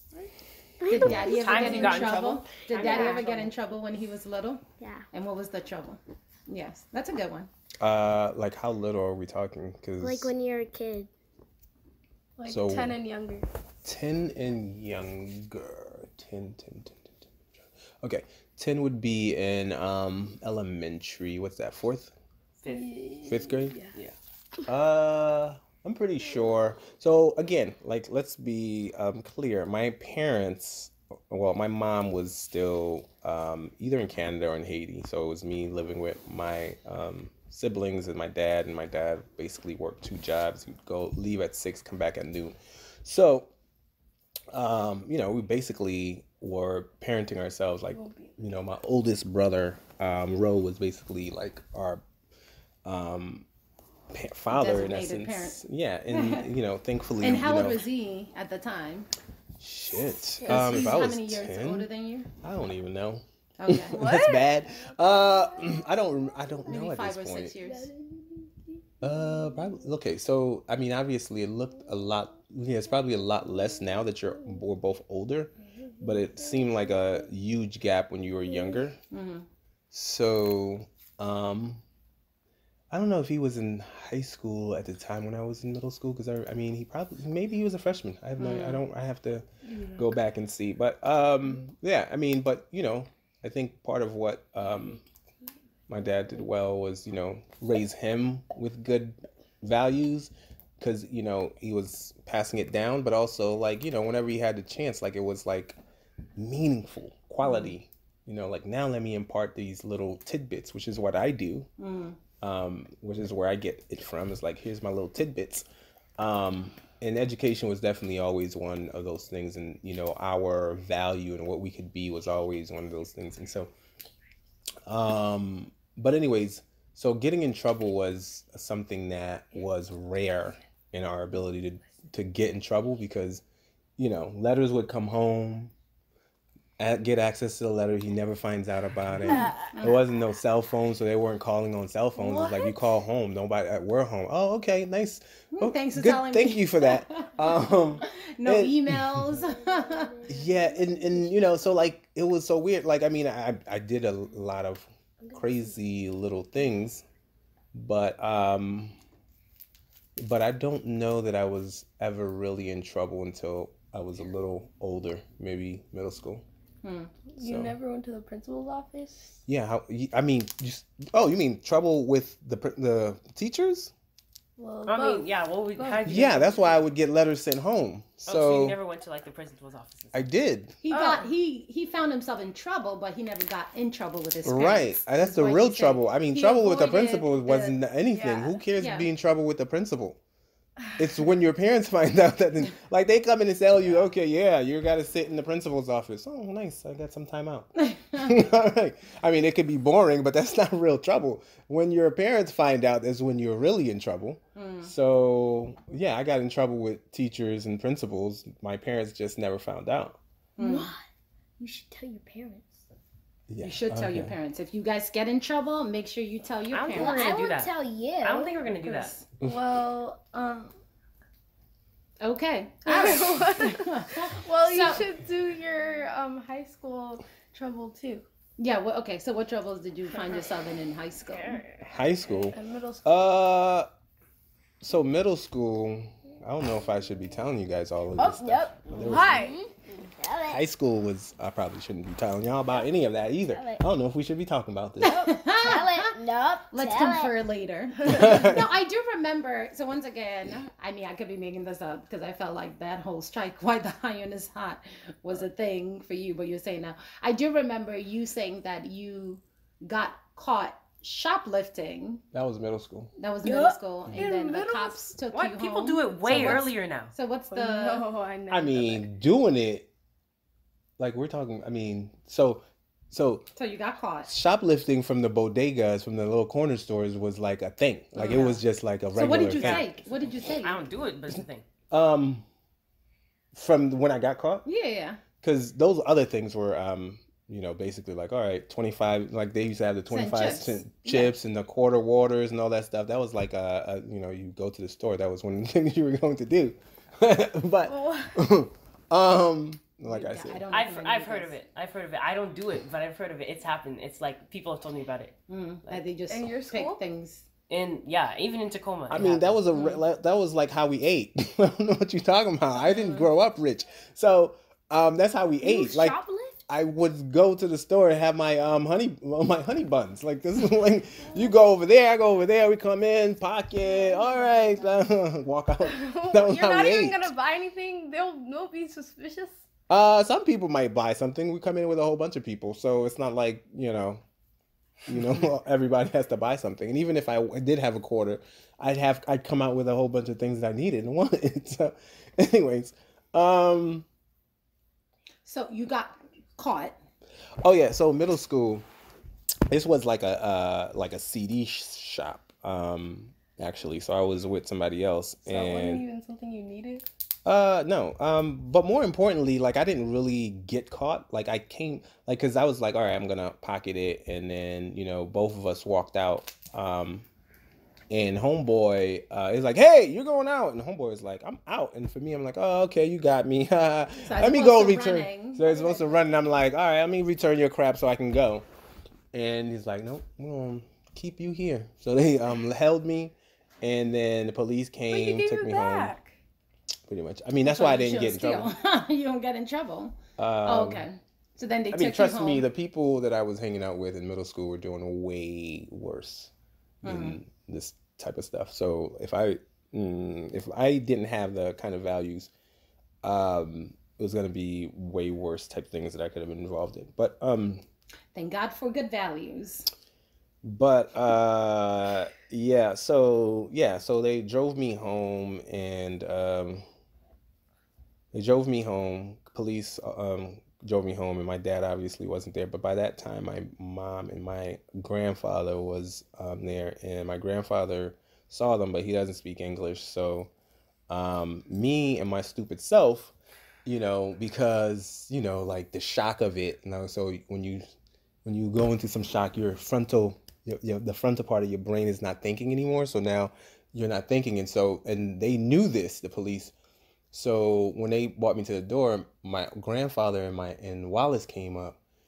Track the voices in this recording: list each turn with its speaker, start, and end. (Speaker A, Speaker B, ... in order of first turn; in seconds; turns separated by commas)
Speaker A: 0.8-3.3, Speaker B: 0.9-7.5, Speaker C: 1.2-3.5, Speaker A: 4.8-5.0, Speaker D: 7.8-10.3, Speaker A: 10.0-11.1, Speaker E: 12.4-13.4, Speaker D: 12.4-13.0, Speaker D: 13.8-17.2, Speaker D: 18.0-22.1, Speaker C: 22.6-22.9, Speaker E: 22.7-23.9, Speaker D: 23.2-23.8, Speaker D: 24.7-43.5, Speaker D: 44.5-52.0, Speaker E: 47.9-48.4, Speaker D: 52.8-53.5, Speaker D: 54.1-57.8, Speaker B: 54.5-56.5, Speaker B: 57.2-59.1, Speaker D: 59.6-61.9, Speaker A: 60.4-61.1, Speaker B: 60.4-62.3, Speaker D: 62.4-67.5, Speaker B: 63.6-64.1, Speaker E: 63.9-64.5, Speaker A: 64.8-67.0, Speaker B: 66.7-67.9, Speaker A: 67.6-69.7, Speaker D: 69.0-79.0, Speaker A: 75.8-77.0, Speaker B: 79.1-79.5, Speaker D: 79.9-81.8, Speaker D: 82.9-95.0, Speaker B: 88.4-88.8, Speaker E: 89.7-90.1, Speaker D: 95.9-105.8, Speaker D: 106.4-111.7, Speaker B: 107.4-107.7, Speaker B: 111.8-112.2, Speaker D: 112.4-115.7, Speaker D: 116.2-123.7, Speaker D: 124.8-133.4, Speaker D: 134.0-135.7, Speaker D: 136.8-149.3, Speaker B: 139.3-140.0, Speaker E: 139.3-139.7, Speaker B: 142.2-142.8, Speaker B: 145.5-147.4, Speaker B: 148.0-150.1, Speaker A: 149.3-151.6, Speaker D: 150.3-157.0, Speaker A: 155.2-155.6, Speaker D: 157.7-158.9, Speaker D: 160.2-166.4, Speaker B: 166.8-167.1, Speaker E: 167.3-169.4, Speaker D: 167.4-167.8, Speaker D: 169.5-173.9, Speaker E: 174.6-176.4, Speaker C: 174.9-176.8, Speaker D: 176.0-178.8, Speaker C: 178.2-180.3, Speaker D: 180.1-180.8, Speaker B: 180.8-187.7, Speaker E: 180.9-181.3, Speaker D: 184.4-190.2, Speaker E: 188.1-188.6, Speaker B: 188.8-189.1, Speaker D: 191.0-210.2, Speaker C: 193.8-194.1, Speaker B: 197.8-198.3, Speaker B: 204.6-204.9, Speaker B: 210.6-210.9, Speaker A: 210.6-211.0, Speaker A: 211.6-212.8, Speaker D: 213.5-214.3, Speaker B: 213.6-217.3, Speaker C: 216.7-219.2, Speaker A: 216.9-218.6, Speaker E: 218.8-220.7, Speaker B: 222.2-225.0, Speaker E: 222.9-228.2, Speaker B: 228.6-231.6, Speaker D: 231.8-233.9, Speaker E: 232.4-233.3, Speaker D: 234.8-239.4, Speaker E: 238.2-239.6, Speaker A: 238.2-240.6, Speaker D: 240.5-245.2, Speaker A: 243.5-243.8, Speaker B: 245.0-246.2, Speaker A: 245.0-247.3, Speaker B: 246.7-262.2, Speaker D: 248.1-248.7, Speaker D: 262.3-263.1, Speaker B: 263.2-268.1, Speaker E: 263.4-265.2, Speaker C: 265.3-267.1, Speaker D: 266.2-266.6, Speaker E: 267.5-269.0, Speaker D: 268.5-269.9, Speaker D: 271.0-273.4, Speaker B: 273.6-274.3, Speaker D: 274.2-279.9, Speaker B: 278.1-278.6, Speaker B: 279.1-280.8, Speaker C: 279.3-281.6, Speaker D: 281.9-282.4, Speaker D: 283.5-284.6, Speaker B: 284.6-285.2, Speaker D: 285.4-300.6, Speaker B: 290.1-291.3, Speaker E: 297.9-298.4, Speaker B: 300.1-301.5, Speaker C: 300.7-306.0, Speaker B: 305.5-307.4, Speaker E: 306.3-307.0, Speaker C: 307.7-309.6, Speaker D: 309.1-316.2, Speaker B: 309.7-310.0, Speaker B: 315.8-316.6, Speaker D: 316.7-327.3, Speaker A: 323.9-324.8, Speaker E: 325.8-329.6, Speaker D: 329.9-334.2, Speaker D: 335.1-344.1, Speaker B: 345.4-346.9, Speaker D: 347.6-348.9, Speaker D: 349.7-356.0, Speaker E: 355.4-357.0, Speaker D: 357.4-367.2, Speaker D: 368.1-378.6, Speaker B: 374.2-376.1, Speaker D: 379.3-386.1, Speaker E: 385.1-386.3, Speaker D: 387.1-388.7, Speaker B: 387.6-392.7, Speaker D: 390.4-391.1, Speaker D: 391.9-396.5, Speaker D: 397.0-402.5, Speaker B: 397.0-397.4, Speaker D: 403.2-407.8, Speaker B: 408.3-409.9, Speaker D: 410.6-416.8, Speaker D: 418.3-430.5, Speaker D: 431.1-433.3, Speaker D: 433.8-437.8, Speaker D: 438.4-446.7, Speaker D: 447.3-452.0